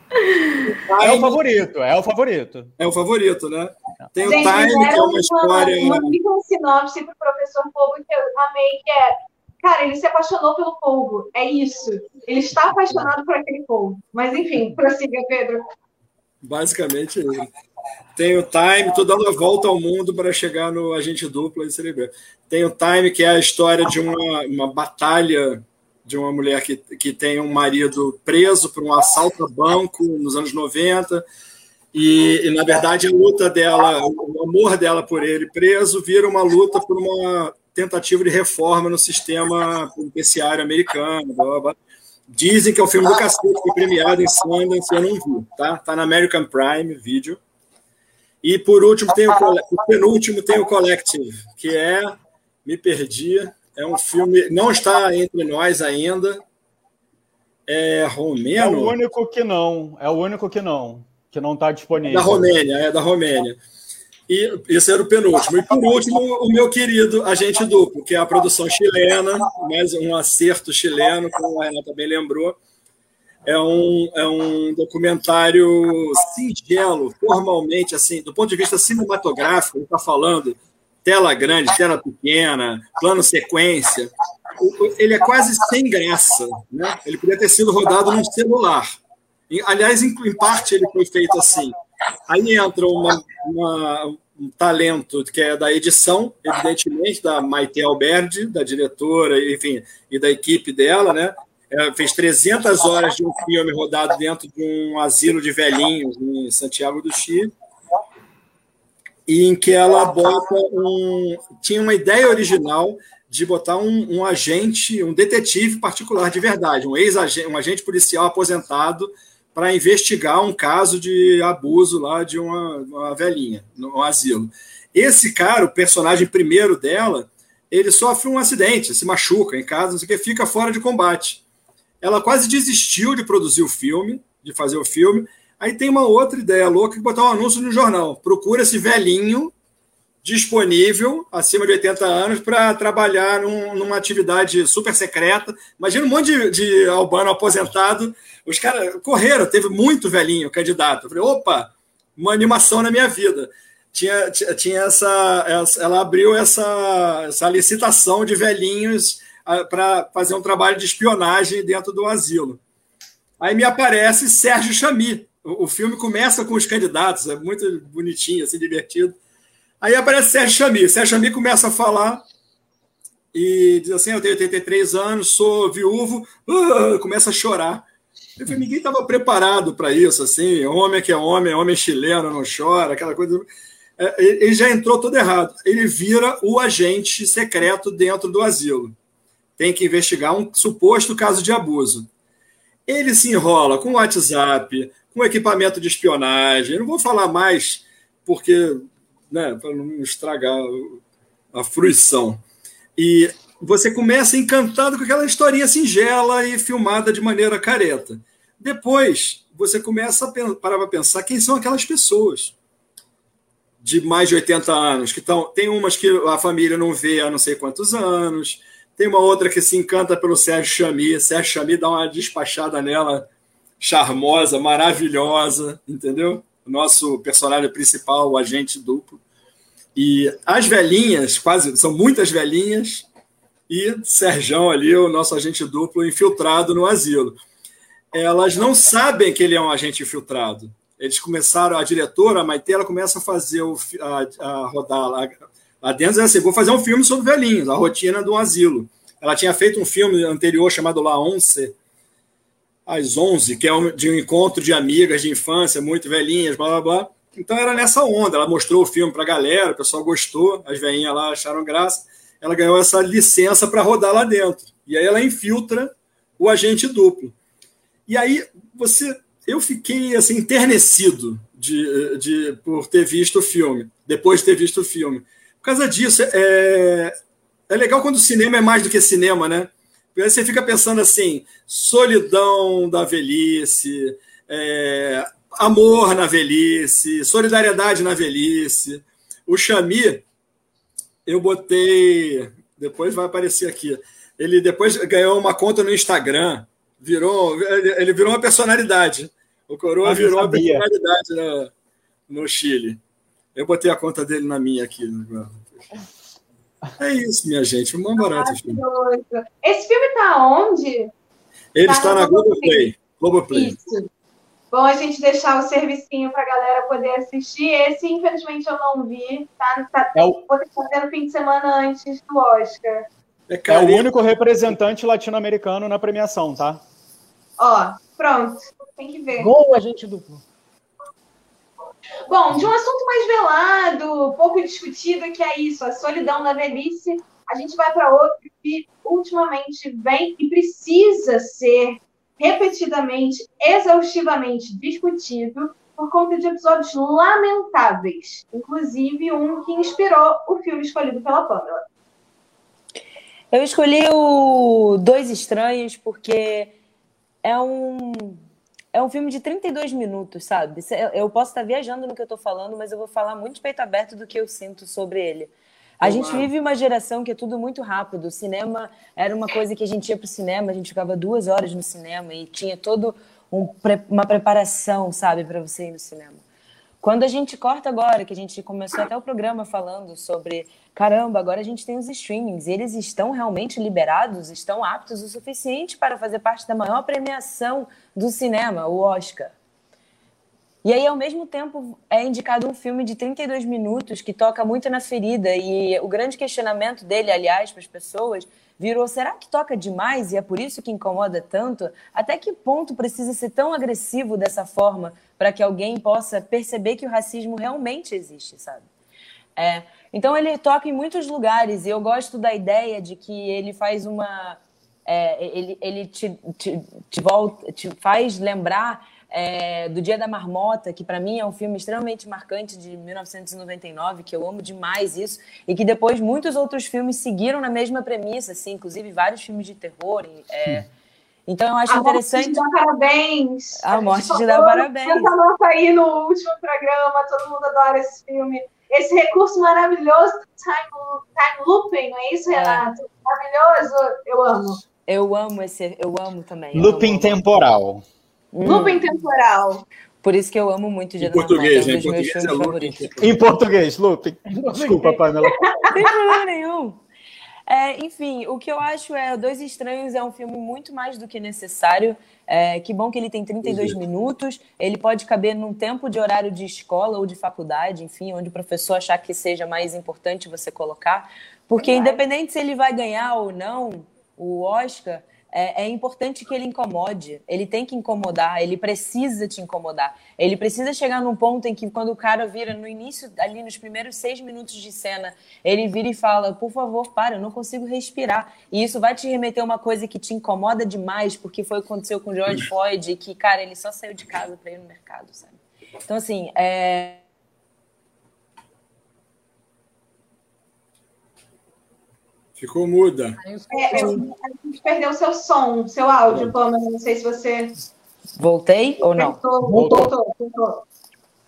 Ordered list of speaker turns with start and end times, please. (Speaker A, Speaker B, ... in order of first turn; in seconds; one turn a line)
Speaker A: 0.7-1.4
Speaker B: 1.0-2.7
Speaker A: 2.8-6.1
Speaker C: 4.2-15.6
Speaker A: 16.4-17.5
Speaker A: 18.1-31.2
Speaker A: 31.9-41.8
Speaker A: 42.3-47.4
Speaker A: 48.4-56.4
Speaker A: 57.7-58.9
Speaker B: 58.5-62.5
Speaker A: 62.1-63.6
Speaker A: 64.3-72.6
Speaker A: 73.5-88.9
Speaker A: 89.5-91.7
Speaker A: 92.3-107.5
Speaker A: 109.3-131.4
Speaker A: 132.0-139.5
Speaker A: 140.2-162.6
Speaker A: 163.4-169.2
Speaker A: 169.8-172.2
Speaker A: 173.3-177.8
Speaker A: 178.4-183.5
Speaker A: 184.0-188.9
Speaker A: 189.6-192.1
Speaker A: 192.9-201.0
Speaker A: 201.5-202.4
Speaker A: 202.9-212.5
Speaker A: 213.8-223.3
Speaker A: 223.8-229.2
Speaker A: 229.9-233.1
Speaker A: 233.7-237.4
Speaker A: 238.1-251.8
Speaker A: 252.8-267.4
Speaker A: 268.1-277.1
Speaker A: 277.7-290.2
Speaker A: 291.2-301.7
Speaker B: 300.0-300.8
Speaker A: 302.3-303.0
Speaker A: 303.5-305.8
Speaker A: 307.0-308.8
Speaker C: 308.2-311.1
Speaker A: 311.7-313.8
Speaker C: 311.9-312.9
Speaker C: 313.5-314.1
Speaker C: 314.7-323.1
Speaker B: 320.1-320.4
Speaker A: 323.5-324.1
Speaker B: 323.7-326.8
Speaker C: 327.6-329.5
Speaker D: 329.4-330.4
Speaker C: 332.3-351.8
Speaker E: 353.5-356.7
Speaker E: 357.4-358.4
Speaker E: 358.9-376.4
Speaker A: 366.0-366.5
Speaker E: 377.0-389.5
Speaker E: 390.8-408.9
Speaker E: 409.6-430.9
Speaker E: 431.5-432.6
Speaker C: 431.9-444.8
Speaker E: 433.8-435.3
Speaker E: 442.5-442.9
Speaker E: 445.1-447.4
Speaker B: 446.7-448.0
Speaker E: 448.5-449.0
Speaker C: 448.6-449.8
Speaker E: 450.2-453.1
Speaker A: 451.2-453.2
Speaker B: 453.2-455.7
Speaker D: 454.5-455.2
Speaker E: 455.9-457.0
Speaker E: 457.7-497.2
Speaker A: 463.6-464.0
Speaker C: 471.8-472.2
Speaker A: 502.6-503.4
Speaker D: 503.4-504.3
Speaker C: 503.7-507.7
Speaker E: 508.4-509.4
Speaker C: 509.1-510.8
Speaker D: 509.7-510.1
Speaker B: 509.7-510.1